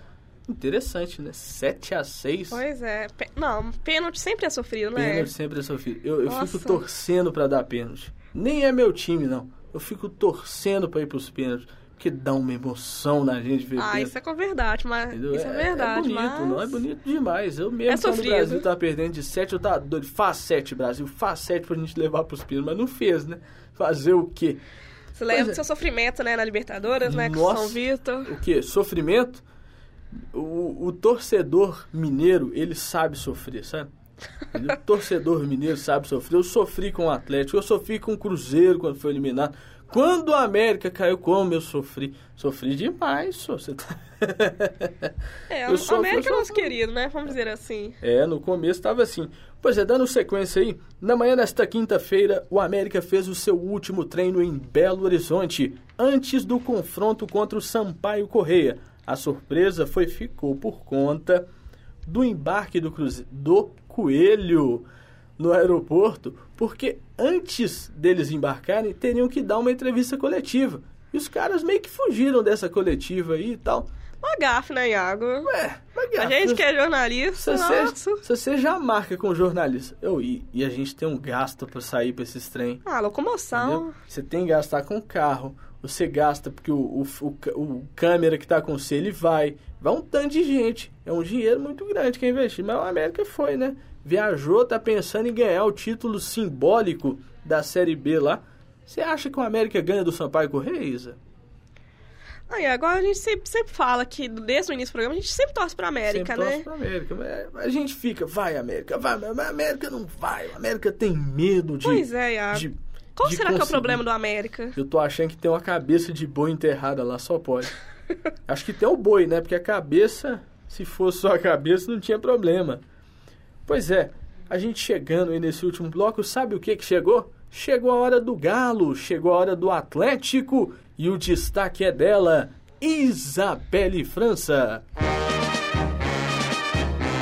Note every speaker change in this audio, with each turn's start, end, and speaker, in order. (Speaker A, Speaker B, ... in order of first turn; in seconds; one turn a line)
Speaker A: 0.5-2.6
Speaker B: 2.5-5.3
Speaker A: 4.9-14.1
Speaker B: 6.2-6.8
Speaker B: 13.8-16.8
Speaker A: 15.1-24.6
Speaker B: 17.9-18.6
Speaker B: 25.1-28.3
Speaker A: 25.3-25.6
Speaker A: 27.0-29.4
Speaker A: 30.3-33.9
Speaker A: 34.5-45.1
Speaker B: 45.5-48.0
Speaker A: 45.6-46.8
Speaker A: 48.0-61.5
Speaker A: 62.0-64.9
Speaker A: 65.4-73.9
Speaker B: 74.2-75.5
Speaker A: 75.4-76.6
Speaker B: 76.1-78.2
Speaker A: 77.3-82.8
Speaker B: 82.8-83.9
Speaker A: 83.5-101.2
Speaker B: 102.5-106.7
Speaker A: 106.0-114.0
Speaker B: 111.8-114.8
Speaker A: 114.7-117.7
Speaker A: 118.5-122.8
Speaker A: 123.7-134.8